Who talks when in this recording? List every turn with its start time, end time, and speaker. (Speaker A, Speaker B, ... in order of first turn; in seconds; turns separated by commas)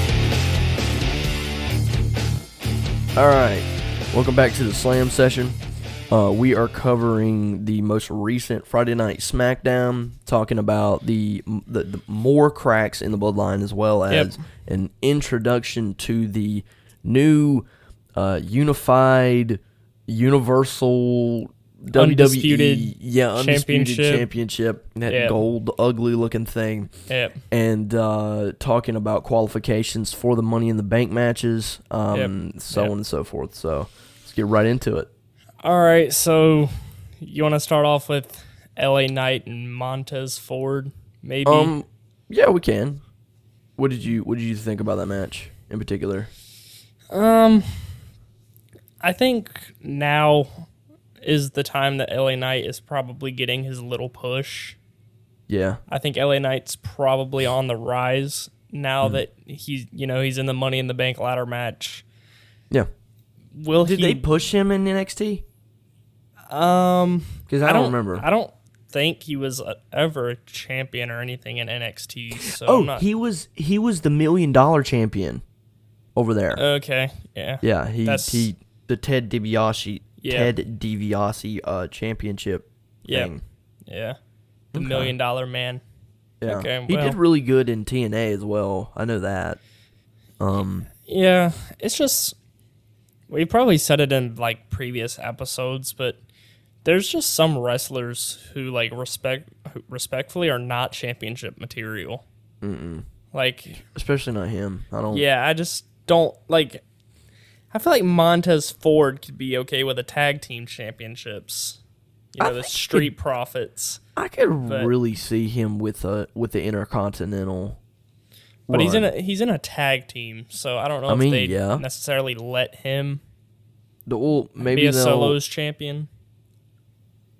Speaker A: 3.2-5.6, Speaker A: 6.1-26.9, Speaker B: 14.1-14.4, Speaker B: 21.9-24.3, Speaker B: 25.1-25.4, Speaker B: 27.1-27.4, Speaker A: 27.5-35.1, Speaker B: 32.1-32.9, Speaker B: 35.6-41.7, Speaker A: 41.5-43.0, Speaker A: 43.8-46.3, Speaker B: 47.1-48.0, Speaker B: 49.0-50.7, Speaker B: 51.2-54.8, Speaker A: 55.5-55.8, Speaker B: 55.9-62.0, Speaker B: 63.5-64.3, Speaker A: 63.8-65.5, Speaker B: 66.5-73.1, Speaker A: 67.5-68.3, Speaker A: 72.4-75.4, Speaker A: 76.2-76.6, Speaker B: 76.5-78.5, Speaker A: 77.6-83.4, Speaker B: 80.2-80.5, Speaker B: 83.0-83.3, Speaker B: 83.9-84.2, Speaker A: 84.7-85.1, Speaker B: 84.7-85.8, Speaker A: 86.4-89.6, Speaker B: 86.5-87.2, Speaker A: 90.4-90.9, Speaker B: 91.1-92.4, Speaker B: 93.3-96.2, Speaker B: 96.8-102.2, Speaker A: 102.6-103.0, Speaker B: 103.3-103.8, Speaker A: 103.9-105.2, Speaker B: 105.1-106.8, Speaker B: 107.7-111.8, Speaker B: 112.3-114.0, Speaker A: 112.4-113.1, Speaker A: 114.2-117.8, Speaker B: 114.7-114.9, Speaker A: 118.7-119.1, Speaker B: 118.7-123.2, Speaker A: 121.1-121.8, Speaker A: 124.1-125.4, Speaker B: 124.6-126.1